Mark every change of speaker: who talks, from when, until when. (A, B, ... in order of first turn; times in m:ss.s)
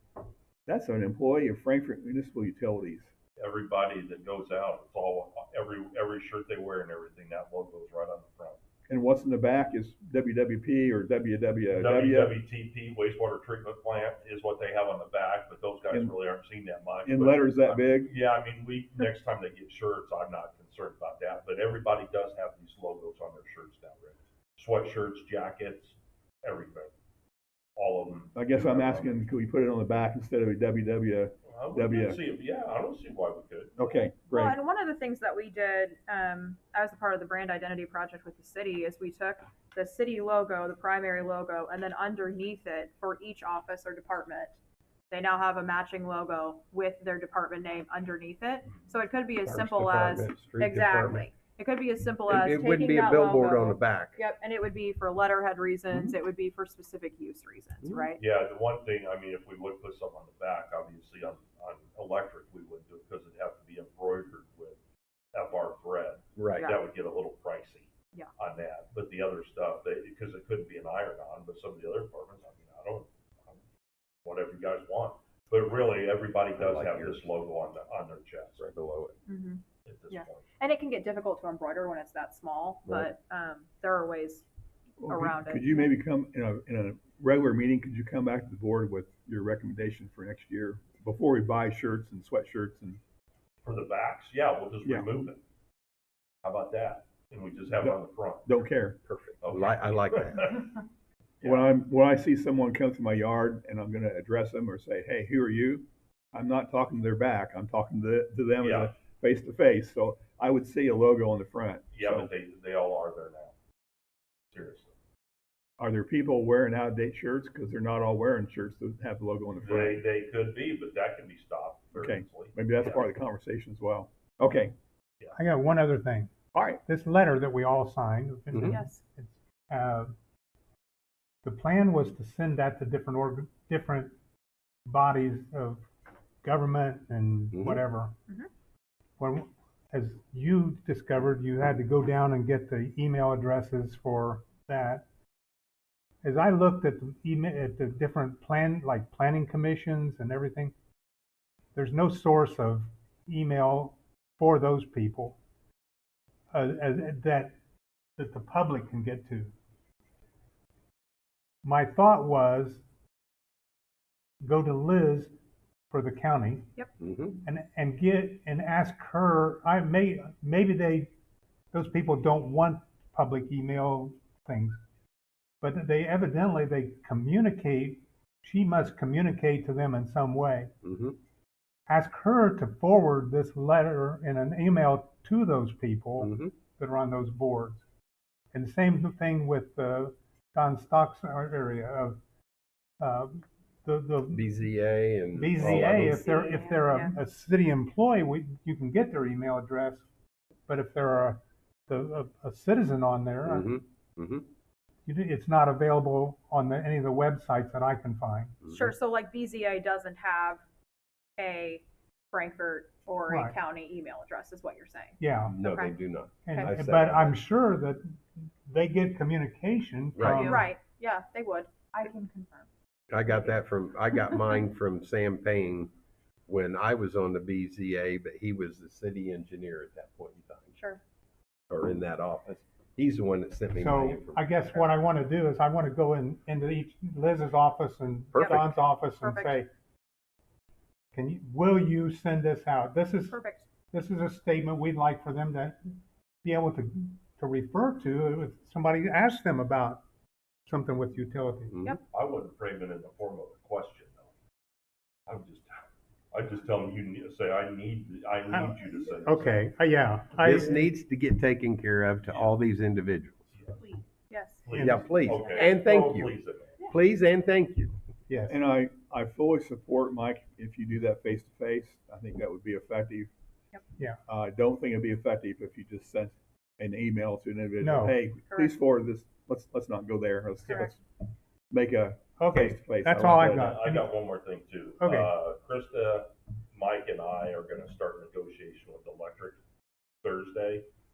0:00.6-0:03.1 A
0:03.4-0:08.6 B
0:08.9-0:12.4 A
0:11.7-0:26.9 B
0:17.0-0:18.1 A
0:27.8-0:29.2 B
0:28.3-0:32.2 A
0:31.5-0:34.0 B
0:33.8-0:34.6 A
0:34.3-0:44.6 C
0:45.1-0:58.2 C
0:49.4-0:51.2 D
0:52.2-0:54.2 D
0:58.2-1:04.8 B
1:05.3-1:13.6 B
1:06.4-1:06.7 D
1:14.2-1:18.6 B
1:16.6-1:17.3 D
1:18.6-1:19.2 D
1:19.3-1:24.4 C
1:19.8-1:20.5 B
1:25.0-1:33.0 A
1:25.1-1:25.9 C
1:33.6-1:35.4 B
1:34.8-1:35.3 A
1:36.4-1:38.5 B
1:37.8-1:39.0 A
1:39.0-1:40.6 D
1:39.4-1:40.7 B
1:41.4-1:41.7 B
1:41.4-1:52.3 A
1:48.6-1:48.9 B
1:51.9-1:53.5 B
1:54.5-1:54.9 B
1:55.8-2:00.0 A
1:59.6-2:03.0 B
2:01.9-2:04.7 A
2:05.3-2:10.1 E
2:06.5-2:06.8 A
2:08.5-2:08.8 D
2:08.7-2:09.0 C
2:11.4-2:14.1 E
2:14.8-2:15.8 E
2:16.4-2:18.2 E
2:17.5-2:17.8 D
2:19.2-2:25.0 E
2:26.2-2:30.7 E
2:31.7-2:35.4 E
2:36.5-2:37.6 E
2:38.2-2:39.5 E
2:41.6-2:42.8 E
2:44.4-2:45.3 E
2:45.9-2:46.8 E
2:47.0-2:47.4 D
2:47.4-2:51.1 E
2:51.7-2:54.8 E
2:55.6-3:00.7 E
3:00.8-3:01.2 D
3:01.9-3:07.8 E
3:06.2-3:06.5 D
3:08.5-3:12.2 E
3:13.0-3:14.7 E
3:14.3-3:16.2 D
3:15.3-3:20.1 E
3:15.6-3:17.2 C
3:20.7-3:23.7 E
3:23.4-3:24.5 D
3:25.1-3:28.8 E
3:28.6-3:30.6 C
3:31.4-3:36.0 C
3:33.3-3:33.6 E
3:35.2-3:35.6 E
3:35.4-3:37.4 D
3:36.4-3:38.1 E
3:38.6-3:40.7 E
3:40.2-3:40.6 D
3:40.2-3:42.7 C
3:43.1-3:45.9 D
3:46.5-3:50.7 D
3:50.8-3:51.0 C
3:51.7-3:54.5 D
3:53.7-3:59.7 E
3:58.3-3:58.8 D
3:59.1-3:59.6 C
4:01.1-4:05.8 E
4:03.3-4:03.7 C
4:06.4-4:10.0 E
4:10.7-4:11.8 E
4:11.7-4:12.0 D
4:12.1-4:14.3 B
4:15.3-4:19.6 B
4:18.5-4:20.9 E
4:20.4-4:23.5 D
4:22.2-4:22.5 B
4:23.5-4:23.8 B
4:23.8-4:24.8 C
4:24.6-4:26.8 B
4:24.8-4:25.2 E
4:24.8-4:26.4 D
4:25.3-4:25.8 C
4:26.9-4:28.0 D
4:28.3-4:28.6 E
4:28.5-4:33.3 A
4:34.3-4:41.0 A
4:37.8-4:38.2 E
4:38.4-4:38.7 C
4:41.7-4:43.7 A
4:42.4-4:44.1 E
4:43.2-4:49.6 B
4:45.0-4:45.3 E
4:50.2-4:50.9 B